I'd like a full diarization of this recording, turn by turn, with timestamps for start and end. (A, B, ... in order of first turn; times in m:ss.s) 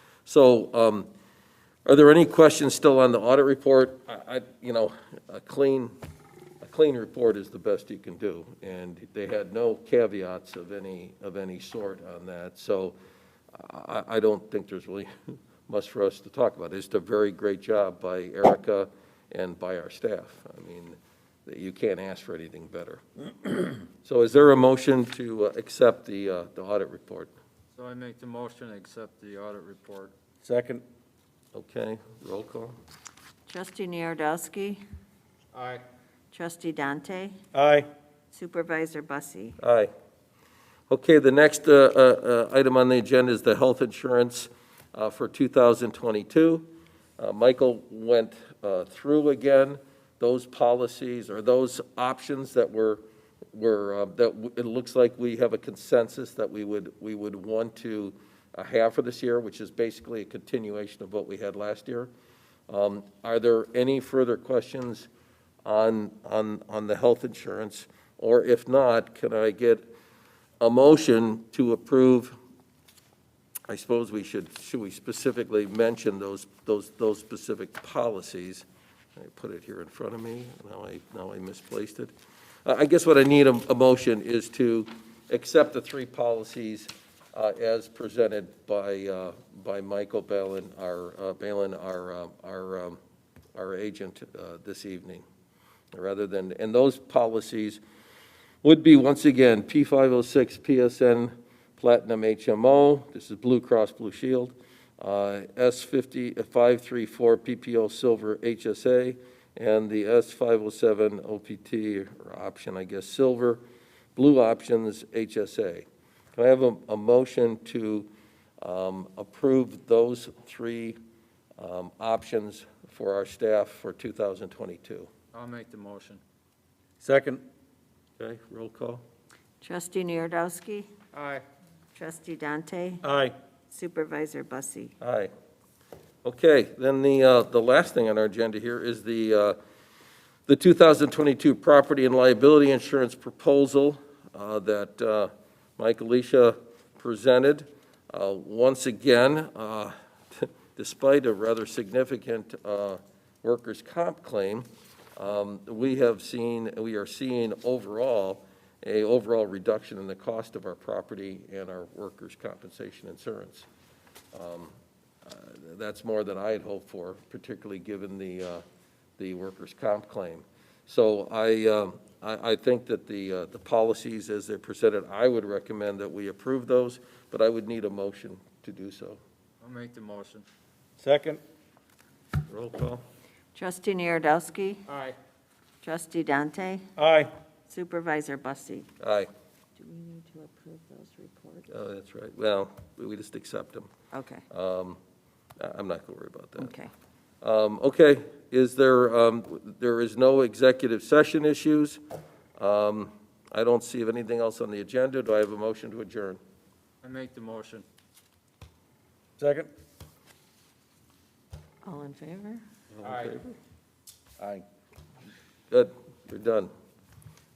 0:00.3-0:01.1 A
0:01.8-0:06.0 A
0:06.6-0:13.0 A
0:13.5-0:27.3 A
0:27.8-0:30.1 B
0:30.4-0:30.8 C
0:31.5-0:32.8 A
0:33.5-0:34.8 D
0:35.5-0:35.8 B
0:36.3-0:37.4 D
0:37.5-0:37.9 C
0:38.3-0:39.6 D
0:39.6-0:39.9 A
0:40.9-0:53.0 A
0:53.5-1:02.1 A
1:02.7-1:05.1 A
1:05.6-1:09.9 A
1:10.6-1:12.3 A
1:13.7-1:22.1 A
1:22.6-1:33.0 A
1:33.6-1:35.2 A
1:35.9-1:37.8 A
1:38.6-1:53.6 A
1:54.2-1:58.1 A
1:58.6-2:01.0 A
2:01.6-2:05.1 A
2:05.3-2:06.2 B
2:07.0-2:07.4 C
2:08.2-2:09.0 A
2:09.6-2:10.9 D
2:11.1-2:11.4 B
2:12.0-2:13.0 D
2:13.0-2:13.3 C
2:13.7-2:14.9 D
2:15.0-2:15.3 A
2:16.2-2:19.6 A
2:20.5-2:43.7 A
2:44.3-2:48.6 A
2:49.2-2:59.2 A
2:59.6-3:00.4 B
3:01.0-3:01.4 C
3:02.5-3:03.0 A
3:03.5-3:04.8 D
3:04.9-3:05.2 B
3:05.8-3:06.8 D
3:07.0-3:07.3 C
3:07.7-3:08.9 D
3:09.0-3:09.3 A
3:09.8-3:11.7 D
3:11.7-3:13.9 A
3:14.1-3:14.4 D
3:14.5-3:15.0 A
3:15.6-3:16.7 A
3:16.6-3:16.9 D
3:17.4-3:22.0 A
3:22.6-3:26.4 A
3:27.0-3:27.8 B
3:29.4-3:29.7 C
3:31.8-3:32.6 D
3:32.9-3:33.5 A
3:33.0-3:33.4 B
3:34.4-3:34.6 C
3:35.7-3:36.7 A